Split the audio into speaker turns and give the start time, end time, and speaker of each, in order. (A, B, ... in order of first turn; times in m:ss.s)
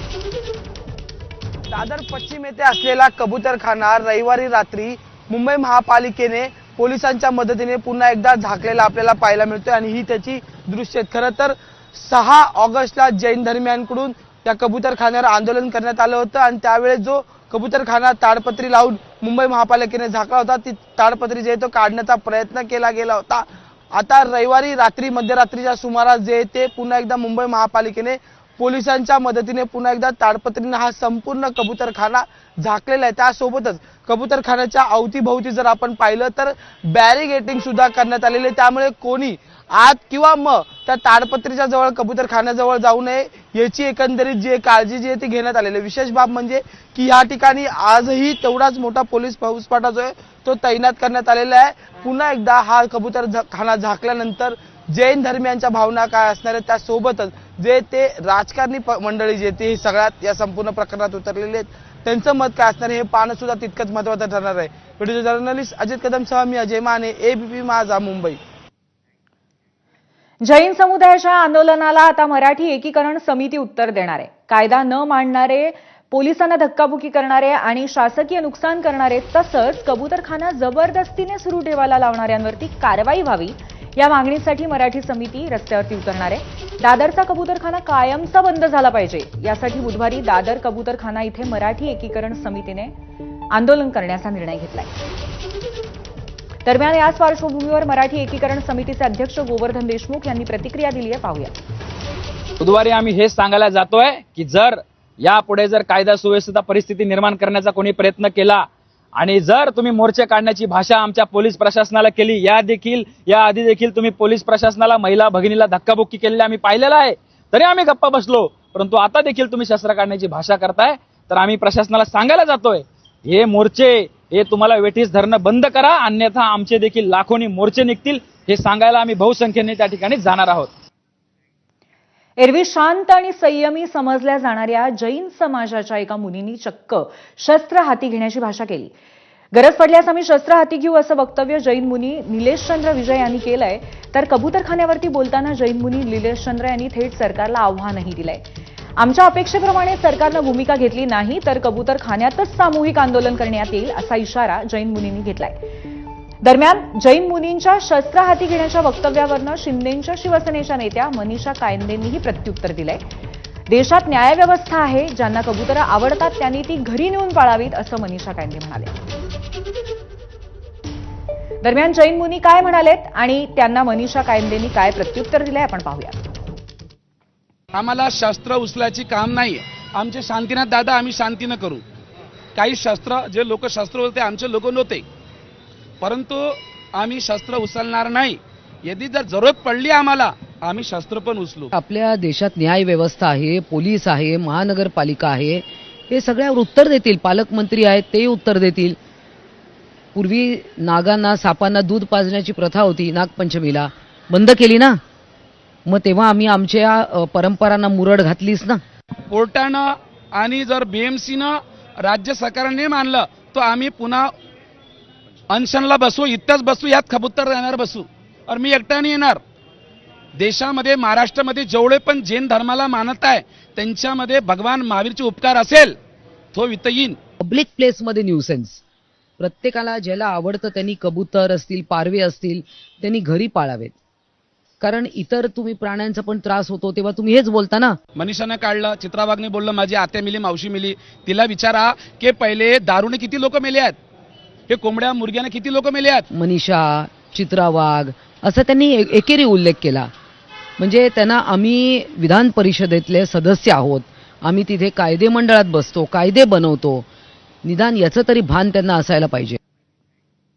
0:01.7-1:08.4 A
1:10.4-1:32.9 B
1:33.5-1:34.9 B
1:36.6-1:41.5 B
1:42.6-2:10.7 C
2:12.4-2:18.9 B
2:19.5-2:28.4 B
2:29.0-2:35.6 B
2:36.4-2:43.0 B
2:43.7-2:48.9 B
2:51.6-2:56.2 B
2:57.7-3:01.8 D
3:02.5-3:05.0 D
3:06.0-3:11.7 D
3:11.7-3:19.0 E
3:20.1-3:25.0 E
3:25.8-3:28.8 E
3:29.3-3:34.3 D
3:35.5-3:39.4 D
3:40.4-3:46.0 D
3:46.5-3:47.2 D
3:47.4-3:48.8 E
3:49.4-3:53.9 E
3:54.8-3:58.0 E
3:58.2-4:04.0 D
4:04.7-4:06.2 D
4:06.3-4:10.1 E
4:10.8-4:17.0 E
4:17.6-4:19.6 E